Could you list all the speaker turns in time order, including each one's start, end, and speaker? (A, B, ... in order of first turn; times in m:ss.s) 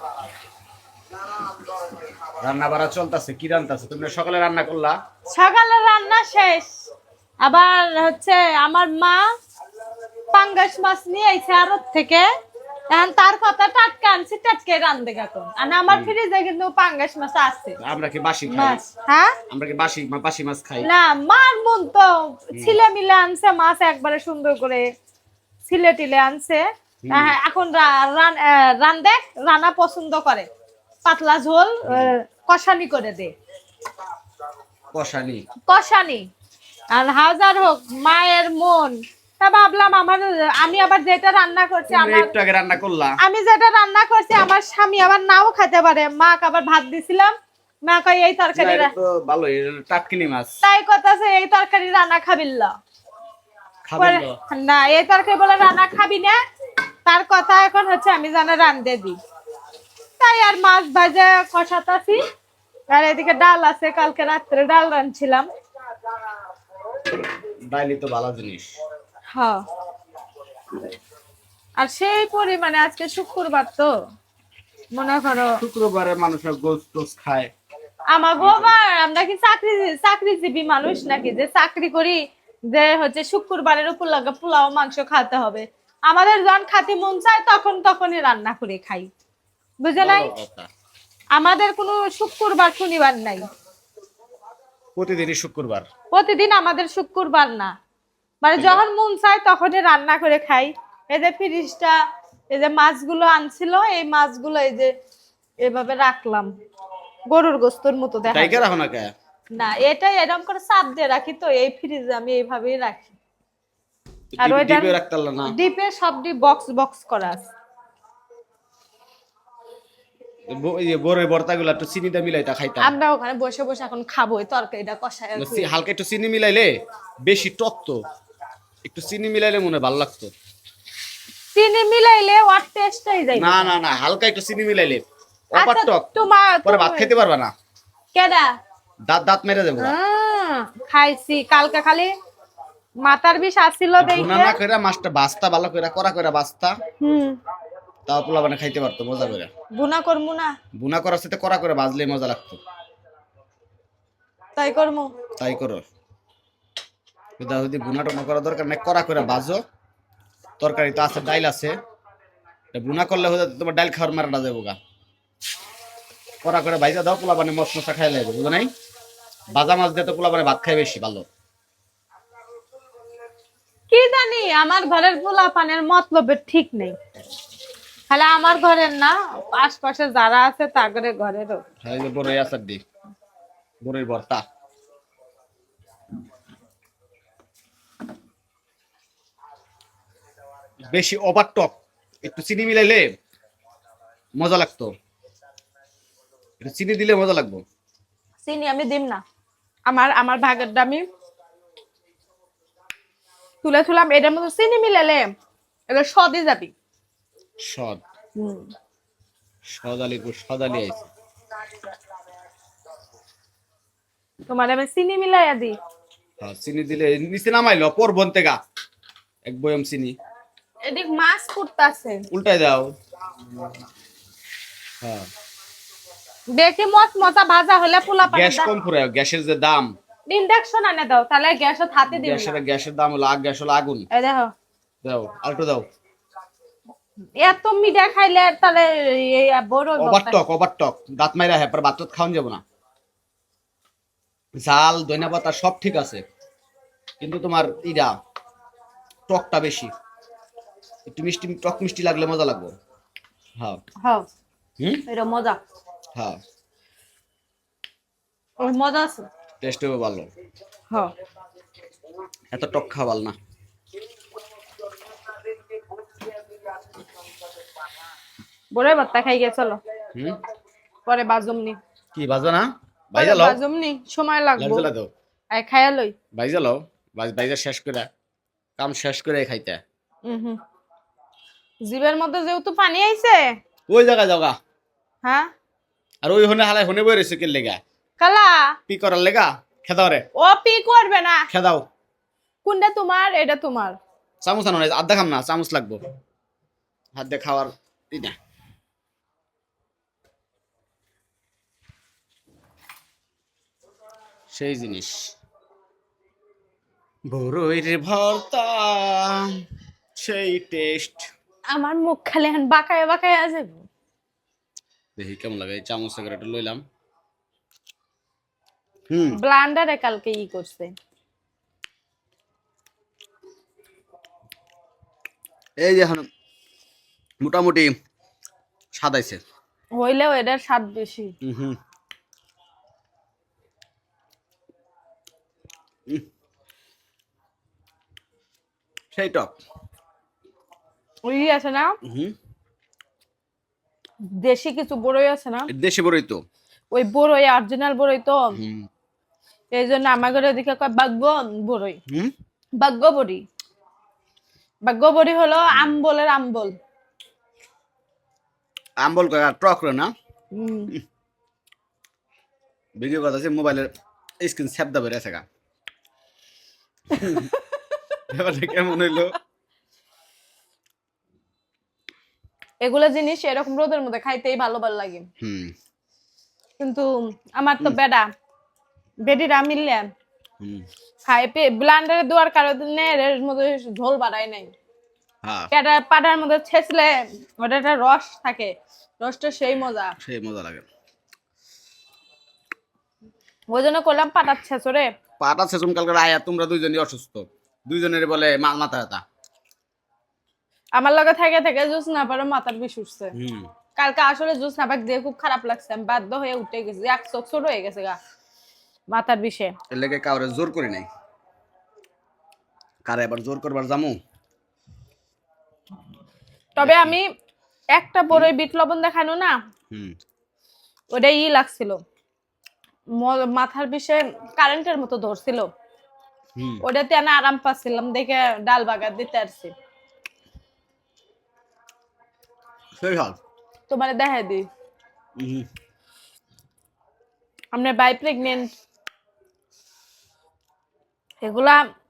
0:02.4-0:05.0 A
0:05.3-0:06.7 B
0:07.4-0:09.2 B
0:10.3-0:12.2 B
0:12.9-0:17.8 B
0:15.9-0:16.1 A
0:17.8-0:18.9 A
0:18.5-0:19.3 B
0:19.5-0:20.9 A
0:20.8-0:24.8 B
0:22.5-0:22.8 A
0:25.6-0:30.5 B
0:27.0-0:27.4 A
0:31.0-0:33.3 B
0:31.8-0:32.1 A
0:34.9-0:35.4 A
0:35.7-0:36.3 B
0:36.9-0:42.3 B
0:41.9-0:43.2 A
0:43.2-0:47.3 B
0:47.8-0:48.9 B
0:48.6-0:50.5 A
0:50.6-0:52.7 B
0:53.8-0:54.4 A
0:54.0-0:56.4 B
0:57.0-0:59.2 B
1:00.2-1:02.2 B
1:02.9-1:05.5 B
1:07.7-1:08.7 A
1:09.3-1:09.6 B
1:11.8-1:13.9 B
1:14.9-1:15.6 B
1:15.6-1:17.5 A
1:18.1-1:22.2 B
1:18.4-1:18.7 A
1:22.7-1:29.1 B
1:29.8-1:30.3 B
1:30.0-1:30.7 A
1:31.3-1:33.4 B
1:35.0-1:35.9 A
1:36.1-1:37.7 B
1:38.4-1:42.0 B
1:38.6-1:38.8 A
1:42.5-1:44.9 B
1:45.6-1:46.5 B
1:47.3-1:48.6 B
1:48.3-1:49.1 A
1:49.5-1:53.1 B
1:54.4-1:55.5 A
1:54.4-1:57.5 B
2:00.5-2:02.9 A
2:02.8-2:05.7 B
2:05.4-2:06.7 A
2:07.2-2:08.0 A
2:08.8-2:10.3 A
2:11.5-2:13.7 B
2:13.3-2:17.5 A
2:15.6-2:17.1 B
2:18.1-2:18.5 B
2:19.1-2:19.9 A
2:19.8-2:22.1 B
2:23.0-2:24.6 B
2:24.0-2:26.8 A
2:27.0-2:27.4 B
2:28.0-2:29.5 A
2:29.7-2:30.5 B
2:30.8-2:32.6 A
2:34.6-2:35.1 B
2:35.4-2:35.8 A
2:37.4-2:39.6 A
2:40.6-2:41.7 A
2:42.7-2:44.8 A
2:46.4-2:48.7 A
2:49.5-2:51.2 A
2:53.9-2:57.0 B
2:58.1-3:01.6 B
3:01.8-3:02.8 A
3:03.8-3:04.4 A
3:10.9-3:13.1 A
3:14.4-3:14.9 A
3:16.6-3:17.6 A
3:18.4-3:19.2 B
3:19.9-3:21.0 B
3:23.6-3:25.3 B
3:25.9-3:26.7 B
3:27.6-3:28.0 A
3:28.4-3:28.7 B
3:29.7-3:31.1 A
3:34.5-3:35.8 B
3:36.4-3:38.6 A
3:39.5-3:40.2 A
3:40.8-3:42.2 B
3:42.3-3:42.9 A
3:45.0-3:45.3 A
3:46.5-3:48.7 B
3:48.2-3:49.9 A
3:50.3-3:52.6 B
3:52.1-3:54.1 A
3:54.1-3:54.5 B
3:55.0-3:55.8 A
3:57.4-4:00.4 B
4:00.0-4:02.6 A
4:04.6-4:06.2 A
4:07.2-4:08.1 A
4:09.3-4:09.9 A
4:11.1-4:12.7 A
4:14.0-4:14.3 B
4:15.1-4:15.6 B
4:18.6-4:19.3 B
4:19.6-4:20.3 A
4:22.5-4:23.4 A
4:28.7-4:29.8 B
4:31.0-4:31.8 B
4:32.1-4:33.6 A
4:33.1-4:34.9 B
4:34.6-4:35.1 A
4:35.5-4:36.1 B
4:36.3-4:38.1 A
4:38.8-4:39.8 A
4:40.2-4:40.6 B
4:41.8-4:43.5 B
4:43.9-4:44.6 A
4:45.2-4:45.5 B
4:46.2-4:47.8 A
4:48.2-4:48.7 B
4:48.9-4:50.2 A
4:50.3-4:51.5 B
4:51.5-4:51.8 A
4:52.6-4:54.0 B
4:54.4-4:56.0 A
4:57.1-4:58.4 A
5:04.5-5:05.3 A
5:07.3-5:09.6 A
5:10.2-5:11.3 A
5:11.7-5:13.8 B
5:15.2-5:16.8 A
5:19.1-5:19.4 A
5:19.3-5:20.9 B
5:25.8-5:26.2 A
5:27.4-5:27.9 A
5:28.9-5:29.4 A
5:29.9-5:31.3 B
5:31.4-5:31.8 A
5:39.1-5:39.6 A
5:41.2-5:42.0 B
5:42.0-5:42.4 A
5:44.2-5:45.7 B
5:45.7-5:46.4 A
5:46.9-5:48.5 B
5:48.5-5:48.9 A
5:49.7-5:52.0 B
5:52.1-5:52.3 A
5:52.8-5:53.4 B
5:54.8-5:56.8 B
5:59.0-6:00.1 A
6:00.5-6:00.9 B
6:03.0-6:03.9 A
6:04.4-6:05.4 A
6:07.1-6:07.5 A
6:08.3-6:09.4 A
6:12.8-6:15.3 B
6:15.4-6:15.7 A
6:16.8-6:18.3 B
6:19.2-6:20.1 B
6:20.6-6:20.8 A
6:21.2-6:24.7 B
6:25.4-6:25.7 A
6:25.7-6:30.1 B
6:30.2-6:30.8 A
6:33.7-6:35.1 B
6:35.4-6:39.2 A
6:41.0-6:43.3 B
6:43.3-6:43.7 A
6:44.0-6:48.2 B
6:49.1-6:49.7 B
6:49.9-6:51.1 A
6:53.0-6:54.2 A
6:56.8-6:57.3 B
6:56.8-6:57.2 A
6:57.9-6:59.5 B
6:59.9-7:00.2 A
7:01.1-7:02.0 B
7:03.2-7:05.7 B
7:06.6-7:06.8 A
7:06.8-7:09.7 B
7:13.0-7:13.4 A
7:13.9-7:14.7 B
7:15.4-7:15.7 A
7:17.7-7:18.7 B
7:21.4-7:21.8 B